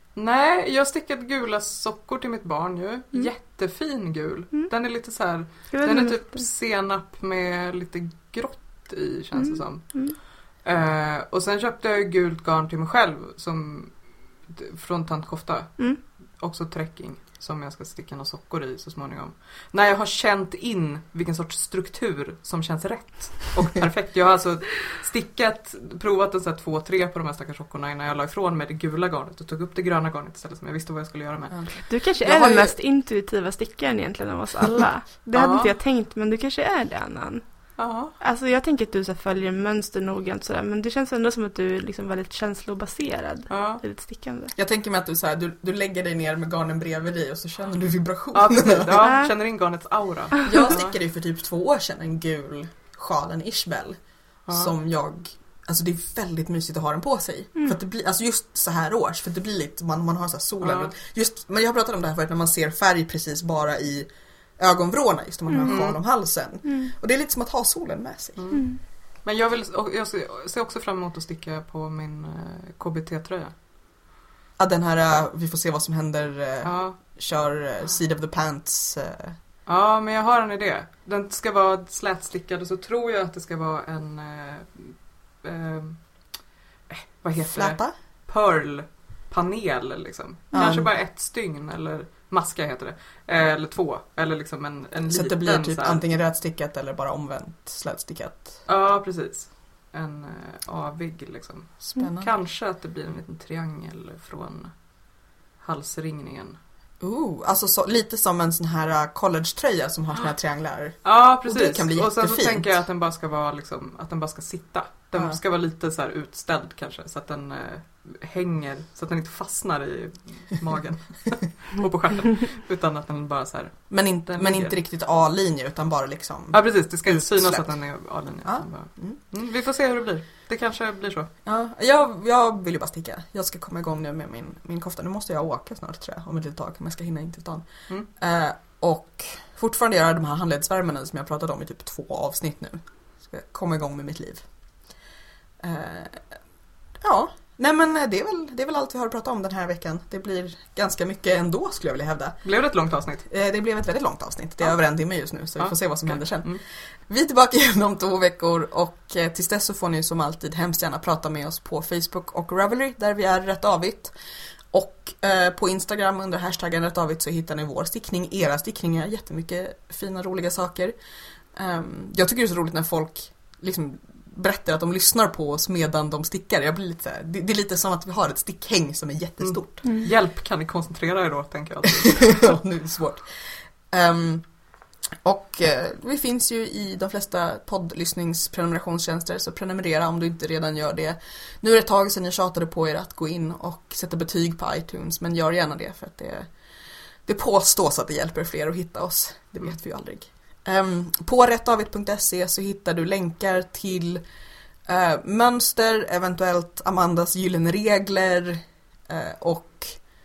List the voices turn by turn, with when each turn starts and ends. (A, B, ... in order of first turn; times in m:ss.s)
0:00.2-0:31.7 A
0:05.7-0:06.4 B
0:09.4-0:10.2 B
0:31.5-0:32.8 C
0:31.9-0:44.6 B
0:35.4-0:35.8 A
0:37.8-0:38.1 A
0:43.5-0:43.8 A
0:44.6-0:49.0 C
0:48.3-0:50.9 A
0:49.0-0:49.3 B
0:50.4-0:54.0 C
0:54.5-0:54.7 A
0:54.5-1:08.4 C
1:00.6-1:00.9 A
1:05.5-1:05.8 B
1:05.6-1:06.0 A
1:06.6-1:06.9 B
1:08.4-1:13.5 A
1:08.5-1:08.8 B
1:14.6-1:19.4 C
1:16.6-1:17.0 A
1:19.7-1:26.2 A
1:26.9-1:36.0 A
1:27.4-1:27.9 C
1:30.5-1:30.9 C
1:35.1-1:38.6 C
1:38.7-1:44.7 A
1:42.0-1:42.3 C
1:45.6-1:46.6 A
1:47.0-1:52.7 C
1:51.0-2:04.7 A
1:55.1-1:55.4 C
2:03.9-2:07.8 C
2:06.5-2:11.3 A
2:08.4-2:09.2 C
2:11.4-2:24.5 C
2:25.6-2:26.3 C
2:27.0-2:32.5 C
2:32.4-2:33.3 A
2:33.2-2:44.2 C
2:35.6-2:36.6 A
2:44.7-2:51.0 C
2:51.5-2:59.9 C
2:59.4-3:02.5 A
3:02.1-3:03.3 C
3:03.9-3:04.5 C
3:05.2-3:16.5 C
3:17.3-3:24.2 C
3:24.9-3:30.0 C